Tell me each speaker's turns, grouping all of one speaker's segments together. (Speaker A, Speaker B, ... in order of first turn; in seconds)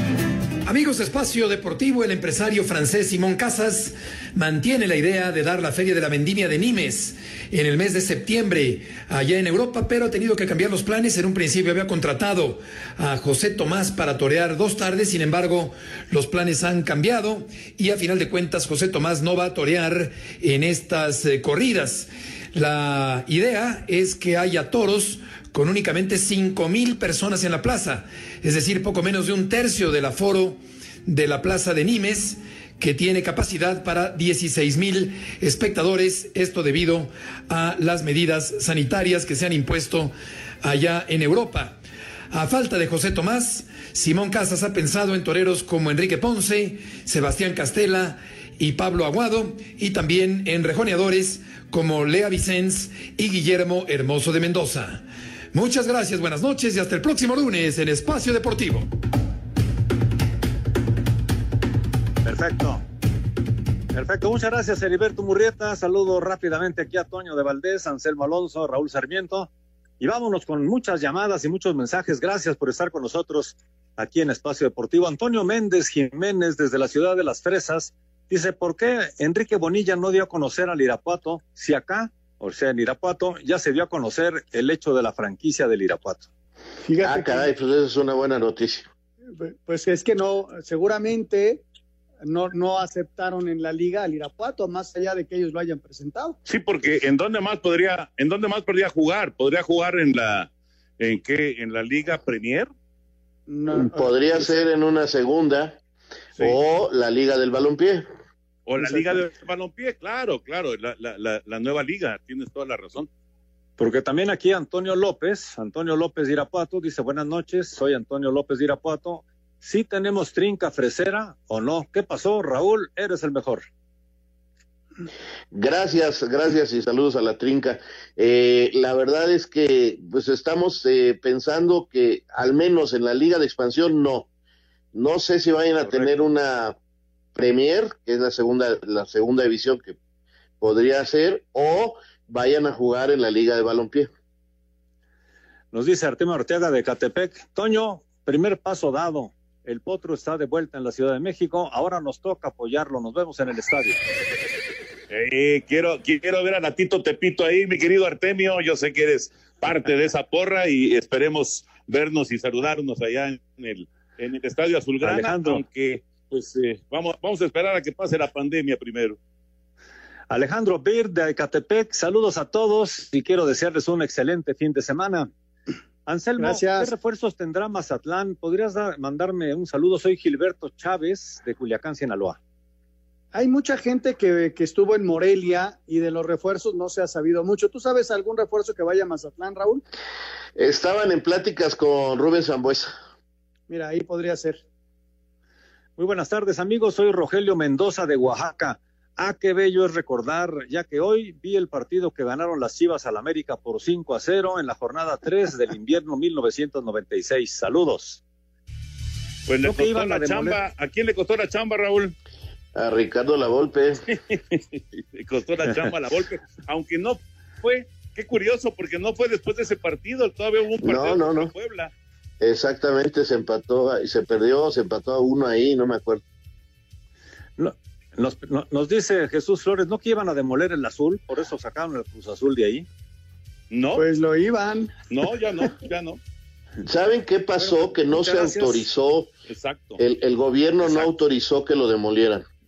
Speaker A: 0.6-41.8, 42.3-55.0, 55.5-58.9
Speaker B: 62.2-62.8, 63.9-69.5, 70.0-86.3, 113.8-123.6, 145.7-154.0, 165.0-165.6, 170.3-175.3, 176.1-182.4, 196.0-208.2, 209.6-210.6, 227.6-232.9, 237.6-238.8
Speaker C: 86.8-87.5, 89.3-91.6, 92.2-96.4, 103.5-104.6, 108.8-109.2, 176.4-176.9, 183.3-189.8, 193.7-194.6, 233.9-234.9
Speaker D: 87.0-88.9, 103.7-105.8, 106.4-108.0, 125.5-134.3, 134.9-136.8, 137.3-140.0, 140.6-144.1, 190.6-192.9, 212.7-214.0, 220.8-221.5, 222.4-226.2, 236.8-239.3, 240.0-242.4
Speaker E: 96.5-102.7, 108.7-113.1, 155.1-169.2, 209.5-212.1, 214.3-221.9, 233.7-234.0, 235.1-236.2, 239.5-240.0